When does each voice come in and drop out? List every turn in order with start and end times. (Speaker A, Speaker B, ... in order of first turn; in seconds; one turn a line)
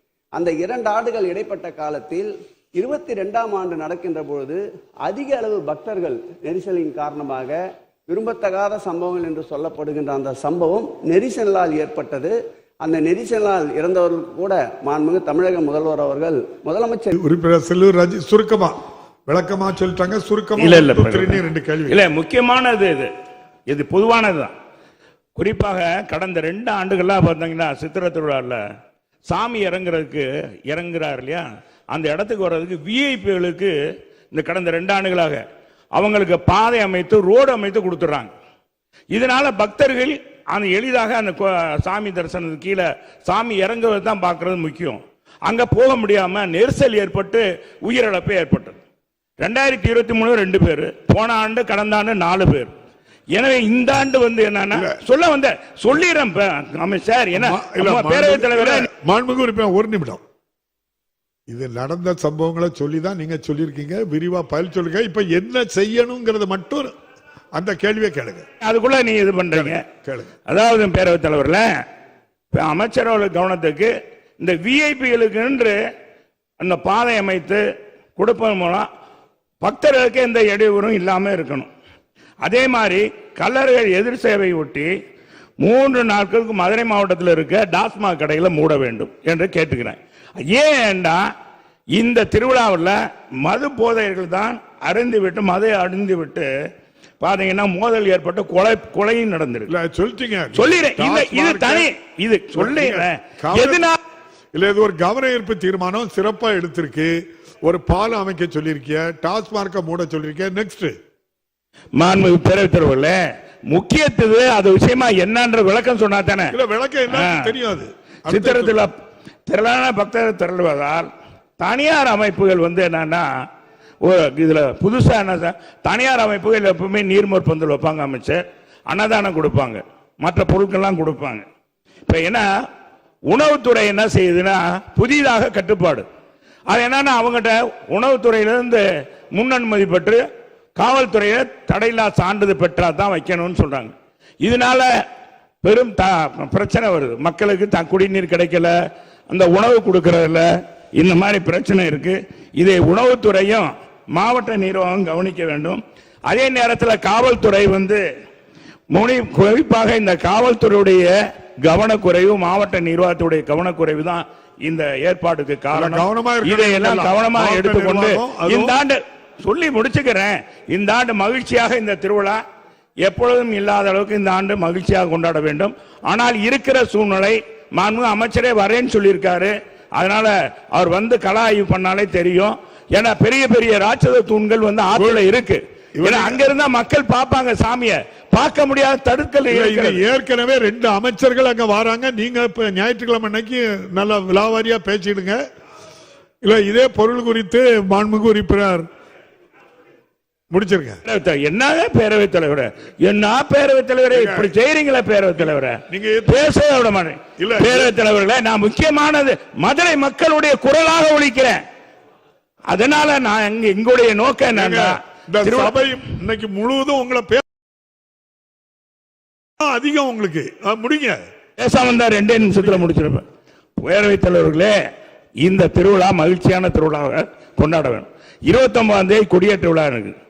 Speaker A: 0.4-7.6
Speaker A: 8.1-12.3
Speaker A: 12.8-17.1
Speaker B: 17.1-22.1
Speaker C: 20.6-23.1
Speaker C: 23.7-24.6
Speaker C: 25.4-28.6
Speaker C: 29.2-33.8
Speaker C: 34.3-35.4
Speaker C: 35.9-38.3
Speaker C: 39.1-48.8
Speaker C: 49.4-52.7
Speaker C: 53.3-58.9
Speaker B: 54.7-55.0
Speaker B: 57.3-60.2
Speaker B: 61.5-66.9
Speaker B: 67.6-68.4
Speaker C: 68.6-69.8
Speaker B: 69.5-70.3
Speaker C: 70.5-71.7
Speaker C: 72.5-75.8
Speaker C: 76.6-77.6
Speaker C: 78.2-78.9
Speaker C: 79.6-81.7
Speaker C: 82.4-84.9
Speaker C: 85.6-91.2
Speaker C: 92.0-96.5
Speaker C: 97.2-99.7
Speaker B: 99.7-101.9
Speaker C: 100.5-104.0
Speaker B: 102.5-104.0
Speaker B: 104.5-111.0
Speaker C: 112.0-116.5
Speaker B: 116.5-118.9
Speaker C: 117.1-117.5
Speaker C: 118.3-118.9
Speaker C: 119.5-123.3
Speaker C: 124.0-131.5
Speaker C: 132.1-132.5
Speaker C: 133.2-136.1
Speaker C: 136.7-140.2
Speaker C: 140.8-145.1
Speaker C: 145.6-148.7
Speaker C: 149.3-158.0
Speaker C: 158.9-172.4
Speaker B: 165.7-168.8
Speaker C: 173.0-190.0
Speaker B: 184.9-185.3
Speaker B: 186.0-186.5
Speaker B: 189.5-195.4
Speaker B: 196.4-198.9
Speaker B: 200.5-201.0
Speaker C: 201.0-211.6
Speaker B: 204.1-204.5
Speaker B: 205.4-206.6
Speaker B: 207.4-207.9
Speaker C: 212.7-215.8
Speaker B: 214.5-217.4
Speaker B: 219.6-221.2
Speaker C: 221.6-223.3
Speaker B: 222.4-222.9
Speaker C: 223.8-224.8
Speaker C: 225.4-230.2